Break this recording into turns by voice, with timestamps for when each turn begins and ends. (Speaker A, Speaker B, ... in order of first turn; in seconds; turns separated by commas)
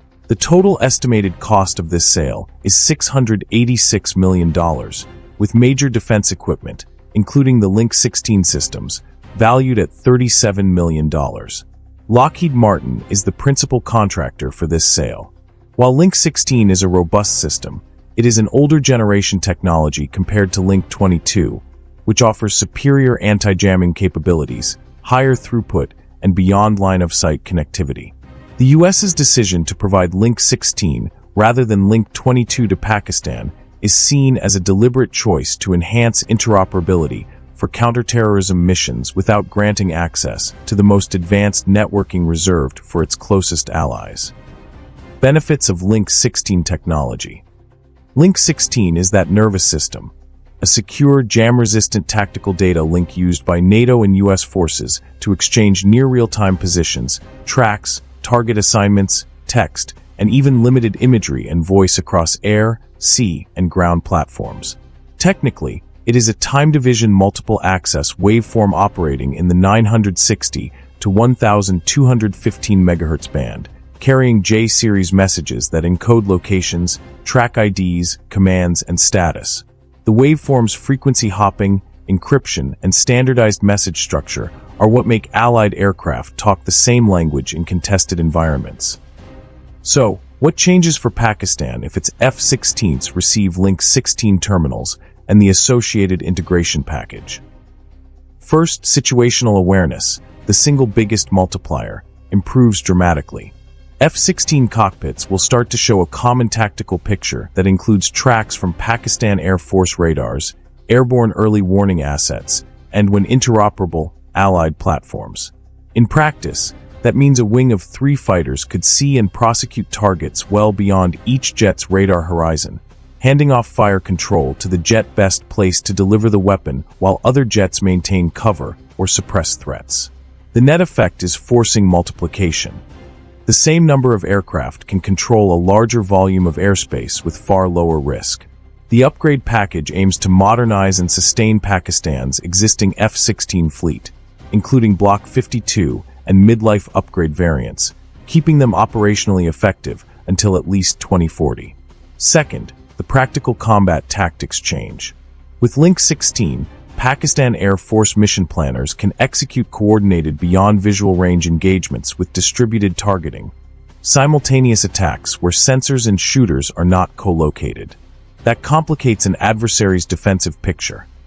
Speaker A: 0.3-44.3, Speaker A: 45.2-47.4, Speaker A: 48.1-89.0, Speaker A: 89.8-97.4, Speaker A: 98.4-132.8, Speaker A: 133.4-171.1